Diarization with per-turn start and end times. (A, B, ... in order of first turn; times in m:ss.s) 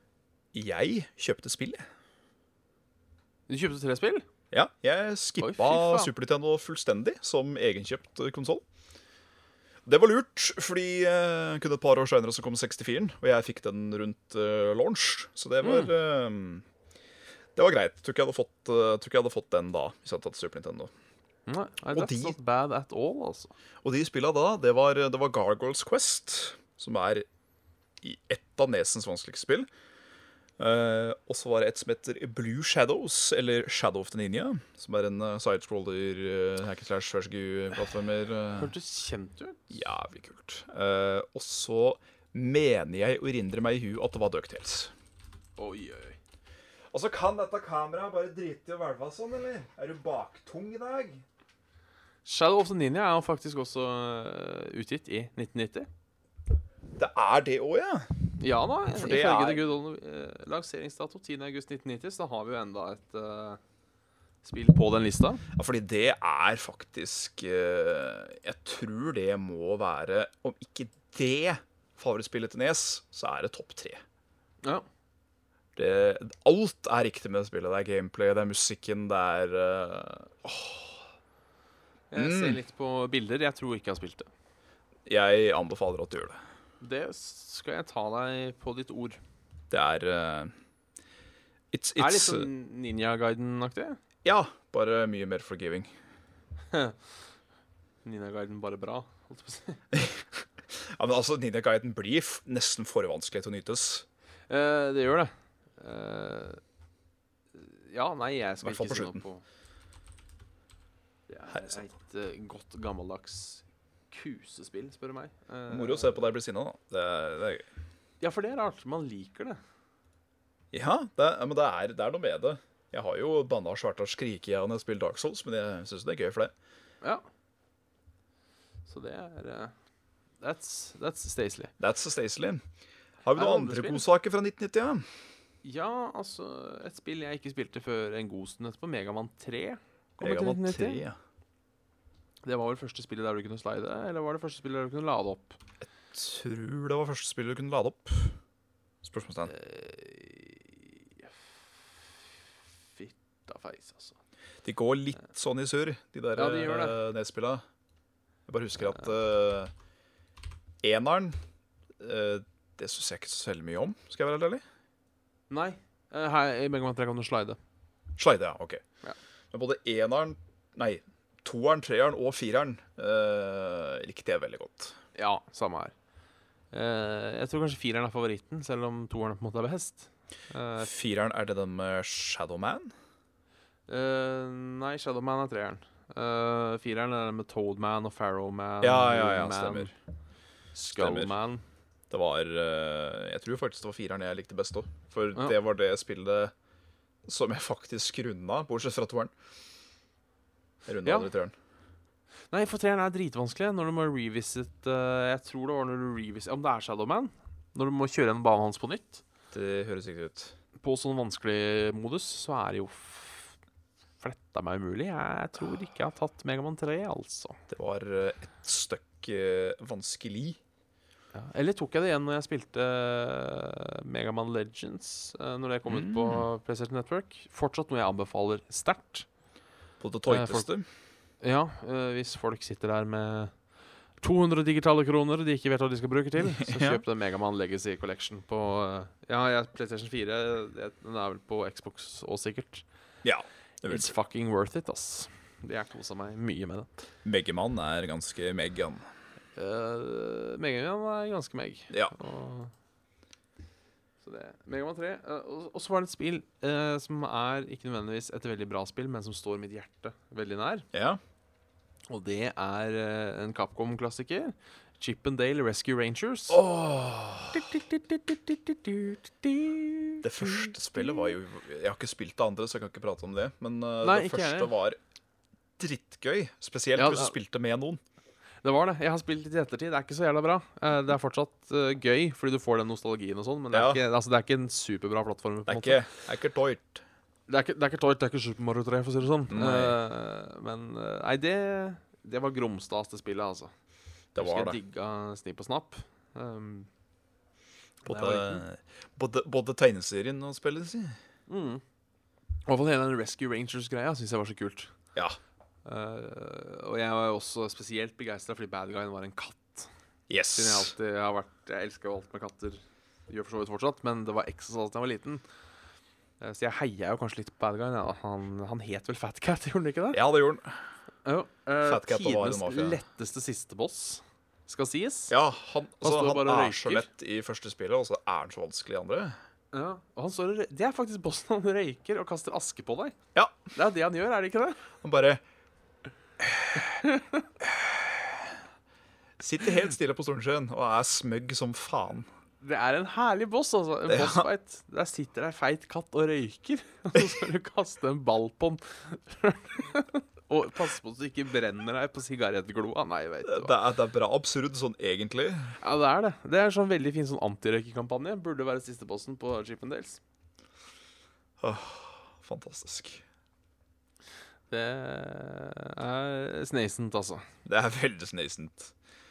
0:00.5-0:01.8 A
0:03.5-0:04.2 B
0:04.5-0:08.6 A
0:05.4-0:06.1 B
0:09.8-0:16.6 A
0:15.6-0:15.9 B
0:17.6-0:20.9 A
0:21.5-0:23.5 B
0:21.9-0:22.4 A
0:23.8-0:27.2 A
0:28.0-0:29.7 A
0:30.6-0:38.7 A
0:38.5-0:39.7 B
0:39.7-0:44.9 A
0:45.6-0:46.2 B
0:46.9-0:51.2 A
0:52.2-0:55.9 B
0:57.0-0:58.1 A
0:58.4-1:03.6 B
0:58.9-0:59.6 A
1:04.4-1:05.4 B
1:05.5-1:14.0 A
1:15.8-1:21.0 A
1:22.1-1:24.3 B
1:22.2-1:22.6 A
1:25.0-1:26.4 A
1:26.8-1:29.2 B
1:29.7-1:30.5 A
1:31.7-1:32.5 A
1:32.0-1:34.0 B
1:34.2-1:35.9 A
1:36.7-1:37.0 B
1:38.0-1:39.8 B
1:39.9-1:44.0 A
1:44.5-1:46.6 B
1:47.5-1:49.4 B
1:48.6-1:49.2 A
1:51.3-1:56.3 B
1:51.5-1:51.8 A
1:55.7-1:57.6 A
1:58.2-1:59.6 B
2:00.7-2:06.5 A
2:08.8-2:09.7 B
2:10.4-2:11.7 B
2:11.8-2:12.6 A
2:13.2-2:15.0 A
2:13.3-2:14.0 B
2:15.6-2:21.0 B
2:20.2-2:21.2 A
2:22.4-2:25.6 B
2:26.1-2:28.4 A
2:29.0-2:29.5 A
2:29.5-2:32.1 B
2:32.9-2:34.2 B
2:34.6-2:37.6 A
2:36.4-2:37.0 B
2:38.5-2:39.7 A
2:40.8-2:41.4 A
2:42.0-2:44.6 A
2:45.5-2:47.6 B
2:48.2-2:48.8 A
2:49.5-2:55.0 A
2:55.2-2:55.9 B
2:56.7-3:00.9 B
3:00.8-3:02.9 A
3:03.9-3:09.9 B
3:08.8-3:09.9 A
3:10.7-3:11.6 B
3:11.0-3:11.3 A
3:12.1-3:16.5 A
3:17.2-3:19.3 A
3:20.8-3:21.5 A
3:21.0-3:21.3 B
3:22.5-3:29.2 B
3:29.5-3:30.5 A
3:30.8-3:33.5 B
3:34.2-3:37.6 B
3:37.7-3:40.6 A
3:41.3-3:49.3 B
3:45.9-3:46.4 A
3:50.0-3:50.8 A
3:50.3-3:50.7 B
3:51.4-3:53.5 B
3:54.2-4:02.8 B
3:56.4-3:57.0 A
4:03.2-4:04.1 A
4:03.9-4:07.0 B
4:07.2-4:09.0 A
4:09.6-4:12.7 B
4:14.2-4:20.9 B
4:20.9-4:21.2 A
4:22.1-4:26.6 B
4:26.5-4:27.8 A
4:27.5-4:31.3 B
4:30.2-4:35.0 A
4:34.0-4:34.7 B
4:35.8-4:38.0 A
4:37.0-4:37.4 B
4:38.6-4:46.0 B
4:43.7-4:44.0 A
4:45.7-4:47.0 A
4:47.5-4:53.7 B
4:49.5-4:50.0 A
4:54.3-4:54.8 A
4:54.4-4:56.9 B
4:58.0-4:58.6 B
4:58.1-5:01.2 A
5:01.5-5:01.8 B
5:02.6-5:04.9 B
5:05.8-5:09.9 B
5:10.3-5:10.9 A
5:10.5-5:15.4 B
5:16.4-5:20.2 B
5:20.1-5:20.8 A
5:21.2-5:25.3 B
5:21.8-5:23.0 A
5:25.3-5:29.4 A
5:26.0-5:27.1 B
5:29.7-5:33.2 B
5:33.7-5:34.8 B
5:35.0-5:35.4 A
5:36.4-5:36.8 A
5:36.8-5:37.5 B
5:37.6-5:38.5 A
5:39.4-5:42.3 A
5:42.6-5:53.8 B
5:44.1-5:44.5 A
5:53.4-5:55.8 A
5:55.8-6:00.2 B
6:01.6-6:03.2 A
6:04.7-6:07.5 B
6:07.6-6:08.9 A